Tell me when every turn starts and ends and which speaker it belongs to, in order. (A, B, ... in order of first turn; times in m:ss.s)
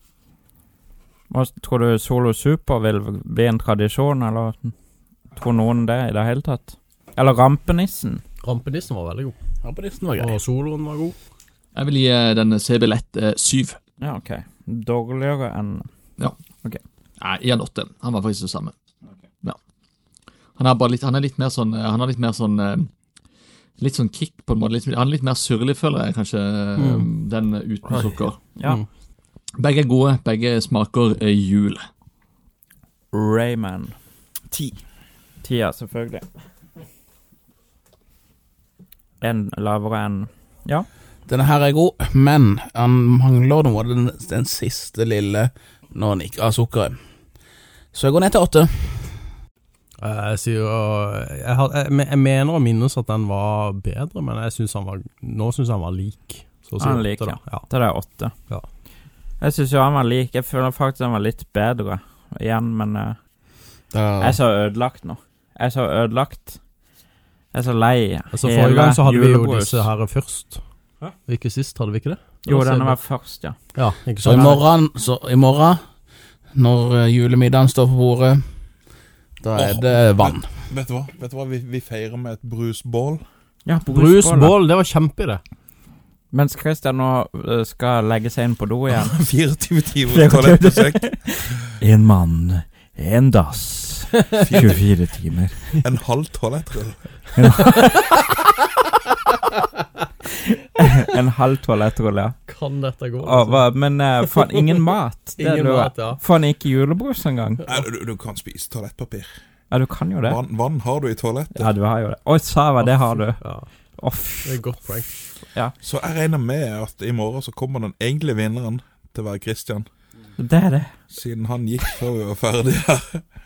0:01.3-0:04.7 A
0:05.4-0:08.2 A
0:08.4-0:09.3 B
0:09.6-0:10.4 C
0:10.2-0:11.2 B
0:11.8-0:13.8 D
0:14.0-0:15.9 A
0:17.2-0:18.7 D
0:20.6-0:22.9 D
0:23.8-0:28.4 D
0:26.8-0:27.1 B
0:28.6-0:28.8 A
0:29.6-0:31.8 D
0:33.1-0:33.9 A
0:35.4-0:36.2 A
0:39.2-0:40.9 A
0:41.3-0:47.0 C
0:47.9-0:49.2 C
0:50.0-0:57.7 B
0:56.8-0:58.3 A
0:59.4-1:03.2 A
1:03.9-1:04.4 C
1:04.2-1:06.6 A
1:07.5-1:09.9 A
1:08.3-1:10.6 B
1:11.3-1:13.0 B
1:12.5-1:13.6 A
1:13.8-1:14.6 B
1:14.2-1:15.8 C
1:16.6-1:18.4 C
1:19.4-1:20.5 C
1:19.6-1:23.2 E
1:23.7-1:24.6 A
1:23.9-1:25.4 B
1:26.3-1:29.2 A
1:28.9-1:31.7 E
1:30.1-1:35.8 A
1:35.8-1:37.1 E
1:37.4-1:38.3 A
1:40.4-1:42.4 A
1:42.5-1:43.7 B
1:43.2-1:47.7 A
1:44.2-1:44.6 B
1:45.4-1:46.2 B
1:47.7-1:49.4 E
1:49.7-1:50.4 A
1:50.2-1:51.7 E
1:51.6-1:55.7 A
1:52.8-1:53.7 B
1:54.4-1:55.2 B
1:55.8-1:59.9 E
2:00.4-2:00.9 A
2:01.1-2:03.2 E